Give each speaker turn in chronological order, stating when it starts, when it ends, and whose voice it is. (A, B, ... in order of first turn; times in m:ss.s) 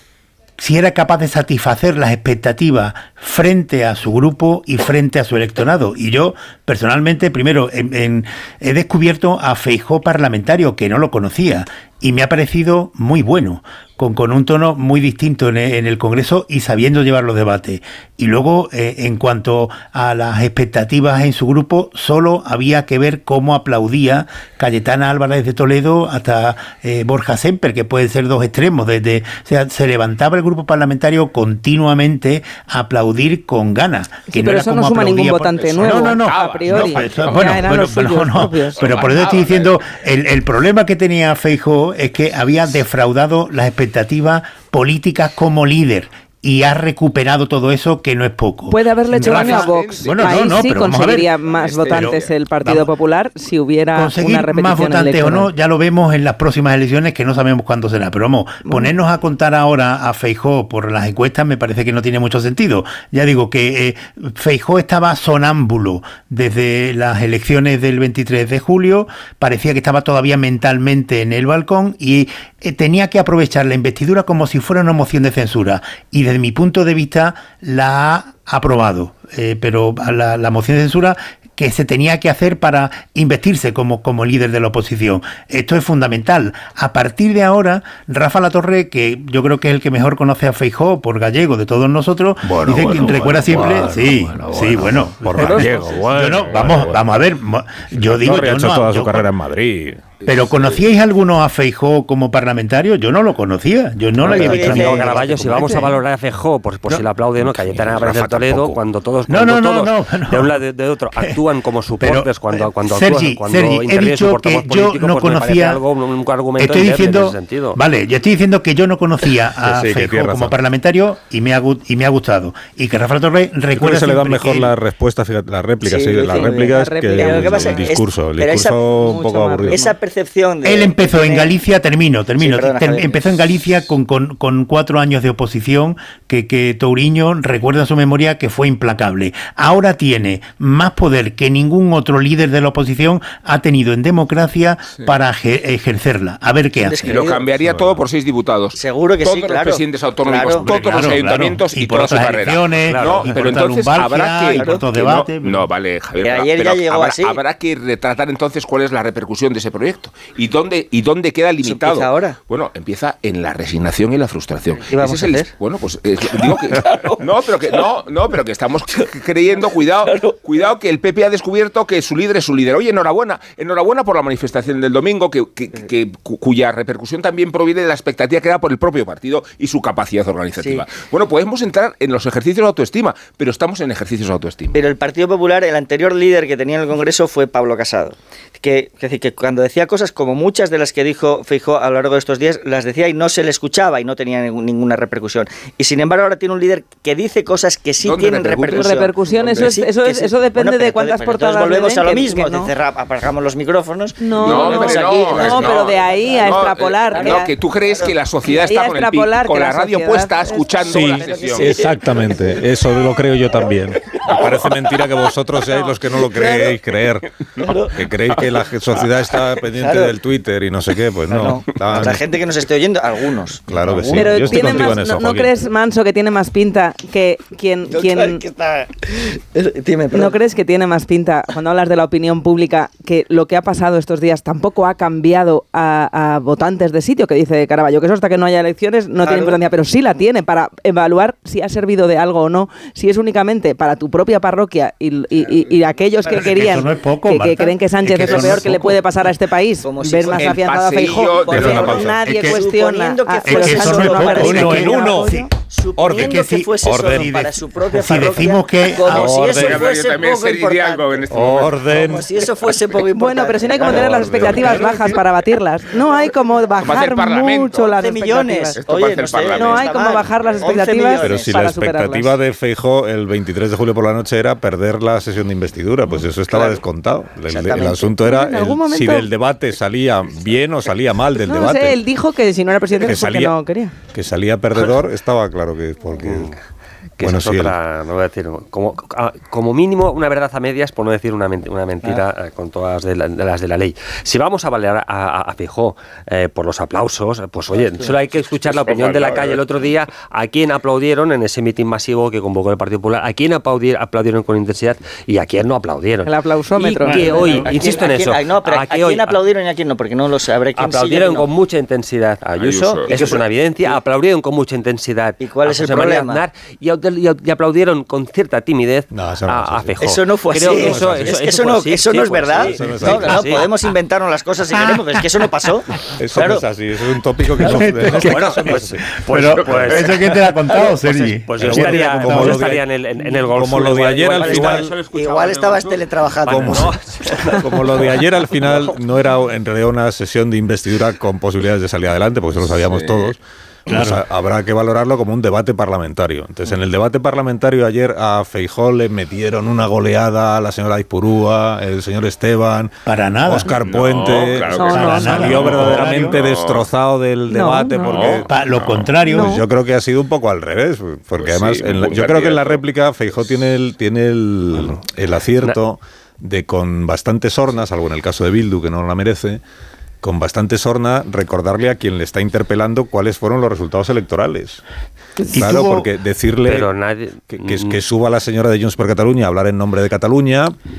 0:00.6-0:51.3 A
0:34.3-0:38.8 B
0:35.5-0:37.6 C
0:38.8-0:39.7 C
0:48.7-0:55.5 B
0:49.1-0:50.6 C
0:51.4-0:52.3 C
0:51.9-0:52.9 A
0:53.9-1:39.3 A
0:58.6-0:58.9 B
1:32.4-1:37.0 D
1:38.0-1:40.1 D
1:40.2-1:45.8 A
1:40.3-1:40.8 C
1:44.2-1:45.6 E
1:44.2-1:57.8 F
1:47.4-1:48.8 D
1:49.3-1:50.6 A
1:52.0-1:55.8 A
1:56.6-2:04.7 A
1:59.6-2:00.6 D
2:03.7-2:09.8 D
2:05.9-2:08.9 E
2:06.0-2:07.9 B
2:08.9-2:09.9 B
2:09.7-2:11.5 E
2:10.6-2:27.1 A
2:12.4-2:13.2 E
2:26.8-2:27.5 E
2:27.0-3:04.8 C
2:27.6-2:28.0 D
2:28.7-2:30.7 E
2:30.6-2:35.6 A
2:32.8-2:33.6 F
2:34.6-2:34.8 E
2:36.2-2:37.4 E
2:41.6-2:42.4 E
2:44.8-2:45.5 E
2:46.4-2:47.2 E
2:50.0-2:50.4 E
3:00.6-3:00.9 E
3:04.7-3:28.1 E
3:18.0-3:19.0 C
3:18.7-3:22.7 B
3:24.2-3:27.5 B
3:24.4-3:31.7 C
3:28.5-3:31.8 B
3:30.8-3:37.3 D
3:31.1-3:32.4 E
3:33.6-3:34.8 E
3:35.7-3:36.8 E
3:37.6-3:37.9 E
3:37.9-3:42.2 D
3:39.7-3:40.1 E
3:41.3-3:44.3 E
3:43.7-3:45.5 D
3:44.2-3:48.4 B
3:47.9-3:50.4 E
3:50.1-4:15.5 B
3:59.2-3:59.6 E
4:06.2-4:06.6 E
4:06.5-4:08.8 A
4:08.3-4:08.6 D
4:08.3-4:08.5 E
4:09.8-4:21.3 E
4:10.4-4:12.2 C
4:11.5-4:12.2 D
4:13.4-4:19.8 A
4:14.4-4:15.0 D
4:16.8-4:17.3 D
4:19.1-4:19.8 D
4:19.4-4:21.8 C
4:21.3-4:22.3 D
4:21.9-4:25.2 E
4:23.1-4:28.8 B
4:23.9-4:24.9 D
4:26.8-4:27.9 C
4:27.9-4:31.5 E
4:28.8-4:29.9 C
4:29.5-4:32.4 B
4:31.2-4:42.0 D
4:36.5-4:36.8 E
4:37.5-4:38.2 E
4:38.2-4:39.3 B
4:41.4-4:43.9 B
4:43.0-4:43.6 D
4:44.1-4:46.6 D
4:47.2-5:06.3 F
4:47.2-4:47.7 D
4:58.7-4:59.6 C
5:06.2-5:07.9 B
5:06.8-5:11.5 E
5:06.8-5:09.4 F
5:10.8-5:23.7 F
5:12.6-5:13.4 C
5:13.1-5:13.4 E
5:15.4-5:16.4 E
5:19.1-5:20.0 D
5:20.0-5:26.6 E
5:20.6-5:21.3 D
5:22.5-5:23.4 D
5:24.7-5:25.2 A
5:26.2-5:30.0 D
5:27.6-5:32.7 A
5:28.0-5:36.9 F
5:31.6-5:32.8 D
5:33.5-5:34.9 D
5:34.4-5:37.6 E
5:36.4-5:52.9 D
5:42.7-5:43.3 C
5:43.9-5:44.2 A
5:53.0-5:53.7 A
5:53.4-5:58.5 D
5:53.8-5:56.9 C
5:54.7-5:55.4 B
5:55.0-5:56.4 A
5:57.5-5:58.3 B
5:58.1-5:59.0 C
5:58.4-5:59.6 A
5:59.2-6:09.6 D
5:59.3-5:59.6 B
6:01.4-6:02.8 C
6:10.2-6:14.8 D
6:15.5-6:16.1 A
6:15.5-6:16.9 D
6:16.6-6:17.9 F
6:17.5-6:20.7 D